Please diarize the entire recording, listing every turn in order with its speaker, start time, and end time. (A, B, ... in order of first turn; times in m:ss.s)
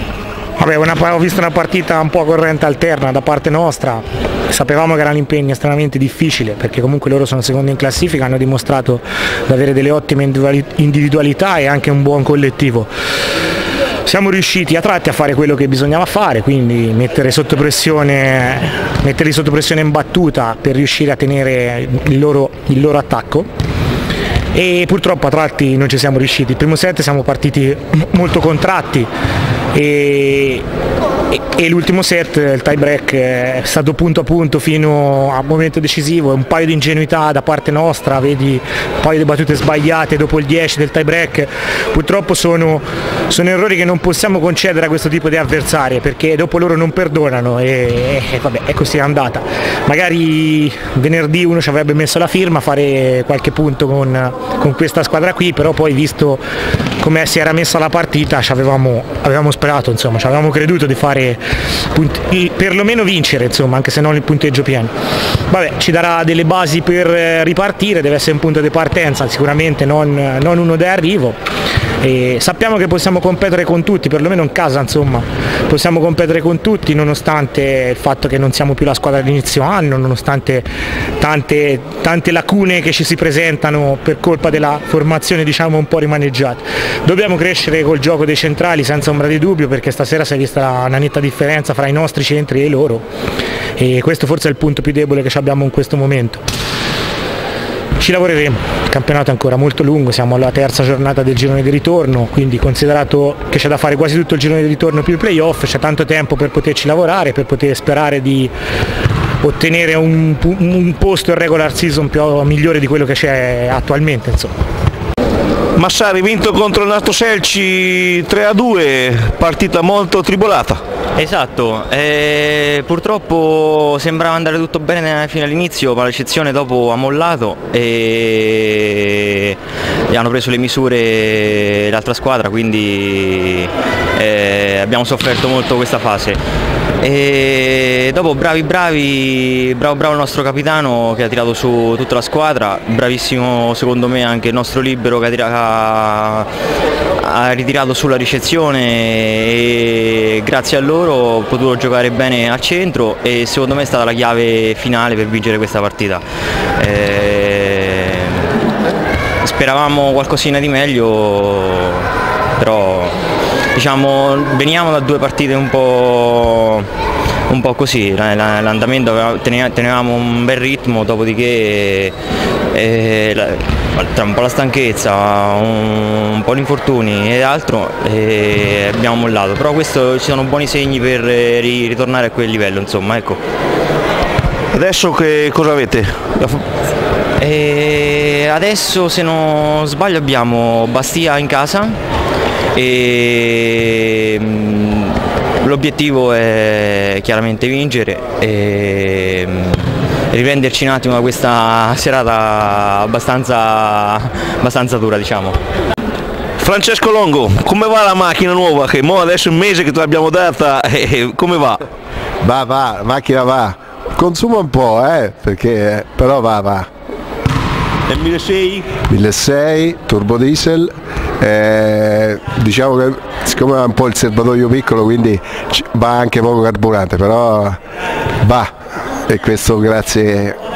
0:00.6-0:12.9 A
0:14.0-0:23.5 A
0:24.5-0:29.1 A
0:29.7-0:30.6 A
0:31.3-0:56.4 A
0:57.0-1:04.9 A
1:05.5-1:11.4 A
1:12.0-1:20.7 A
1:21.2-1:33.0 A
1:33.8-1:36.4 A
1:38.0-1:48.5 A
1:49.4-1:54.6 A
1:55.8-2:00.8 B
2:01.2-2:09.6 C
2:10.1-2:16.4 C
2:17.0-2:26.5 C
2:27.2-2:36.2 C
2:36.8-2:38.5 C
2:39.4-2:43.2 C
2:43.7-2:46.9 C
2:47.5-2:52.2 C
2:52.7-3:03.4 C
3:04.7-3:06.6 B
3:07.4-3:12.0 C
3:12.7-3:25.6 C
3:26.6-3:31.8 B
3:32.4-3:36.9 D
3:38.1-3:38.9 B
3:39.1-3:47.8 D
3:48.4-3:48.7 D
3:49.3-3:50.6 D